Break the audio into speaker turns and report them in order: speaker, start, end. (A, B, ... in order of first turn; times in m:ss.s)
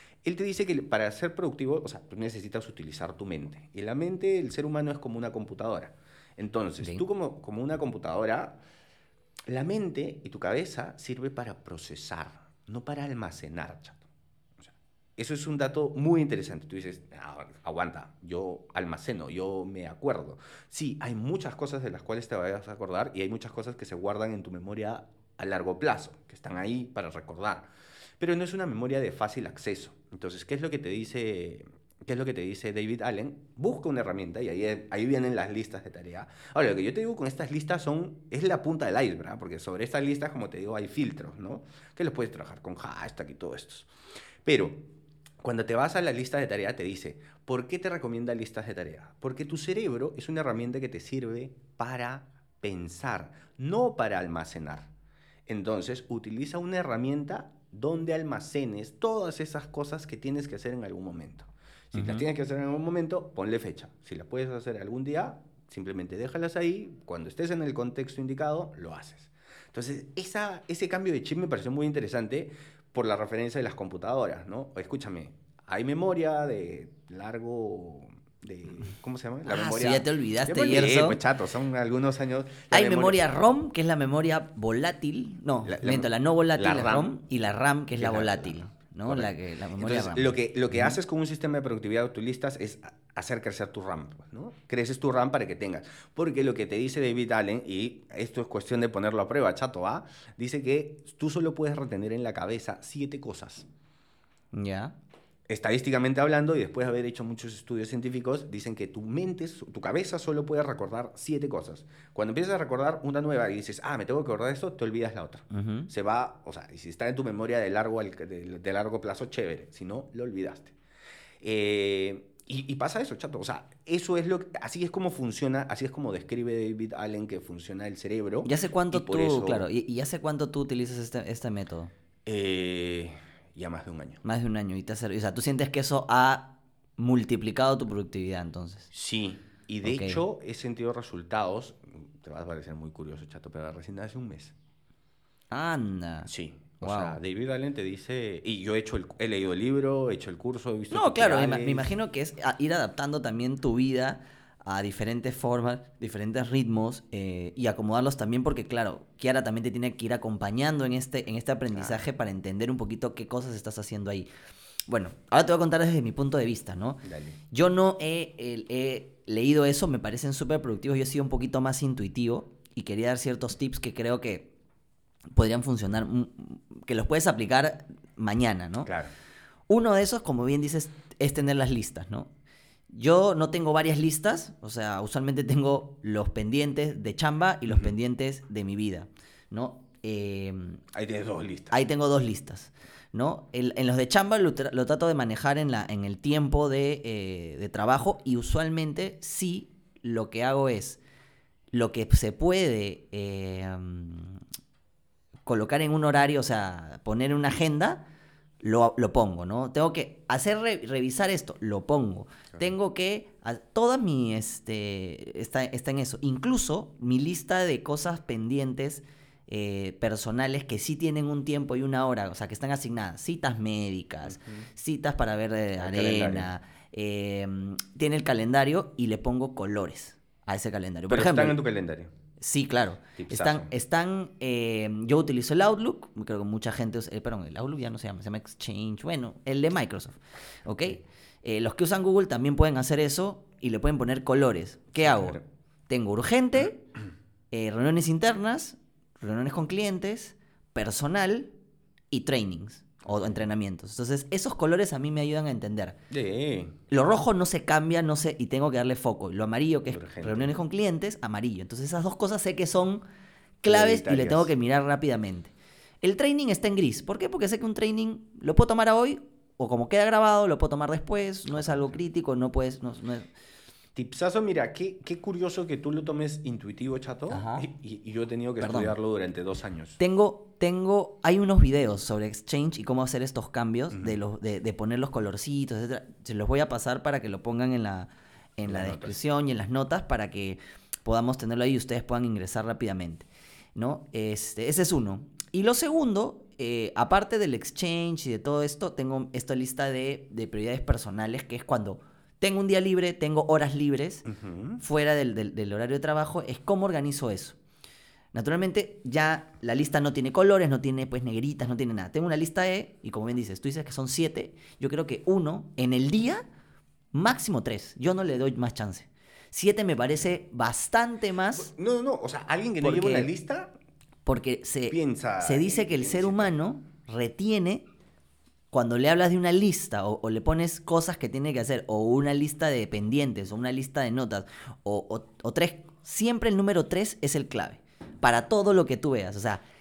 0:00.2-0:08.6 A
0:09.5-0:14.0 A
0:14.6-0:27.7 A
0:28.2-0:43.9 A
0:44.4-0:44.8 A
0:45.4-0:54.9 A
0:55.5-1:23.3 A
1:01.9-1:02.2 B
1:19.4-1:21.2 B
1:22.7-1:31.0 B
1:25.6-1:27.1 A
1:28.0-1:43.7 A
1:44.5-1:44.9 B
1:45.5-2:00.7 A
1:55.5-1:55.9 B
2:01.4-2:09.6 A
2:08.4-2:11.9 B
2:12.2-2:14.2 A
2:14.2-2:18.9 B
2:18.9-2:24.5 A
2:19.8-2:20.2 B
2:25.5-2:26.3 B
2:26.3-2:31.9 A
2:26.8-2:27.2 B
2:30.9-2:44.3 B
2:41.7-2:42.0 A
2:44.9-2:54.5 B
2:47.0-2:47.4 A
2:55.3-2:58.9 B
2:58.8-2:59.1 A
2:59.7-3:02.3 B
3:02.9-3:10.8 B
3:07.7-3:07.9 A
3:10.9-3:11.7 A
3:11.7-3:21.0 B
3:21.7-3:24.4 B
3:25.4-3:28.0 B
3:28.6-3:51.6 B
3:44.3-3:44.7 A
3:45.8-3:46.5 A
3:51.1-3:52.1 A
3:52.4-4:05.4 B
3:53.2-3:53.7 A
4:05.0-4:05.4 A
4:05.9-4:06.8 B
4:07.5-4:11.5 B
4:12.1-4:16.0 B
4:13.0-4:13.4 A
4:16.1-4:16.8 A
4:16.9-4:23.0 B
4:19.9-4:20.6 A
4:23.6-4:33.3 B
4:23.6-4:24.5 A
4:33.9-4:40.0 A
4:37.3-4:37.6 B
4:38.6-4:38.9 B
4:40.0-5:04.2 B
4:43.9-4:44.2 A
4:48.6-4:49.1 A
5:04.3-5:04.8 A
5:04.8-5:07.6 B
5:08.3-5:16.4 B
5:17.1-5:21.7 B
5:21.6-5:23.7 A
5:22.8-5:23.3 B
5:24.2-5:27.8 B
5:24.9-5:26.5 A
5:28.7-5:39.6 B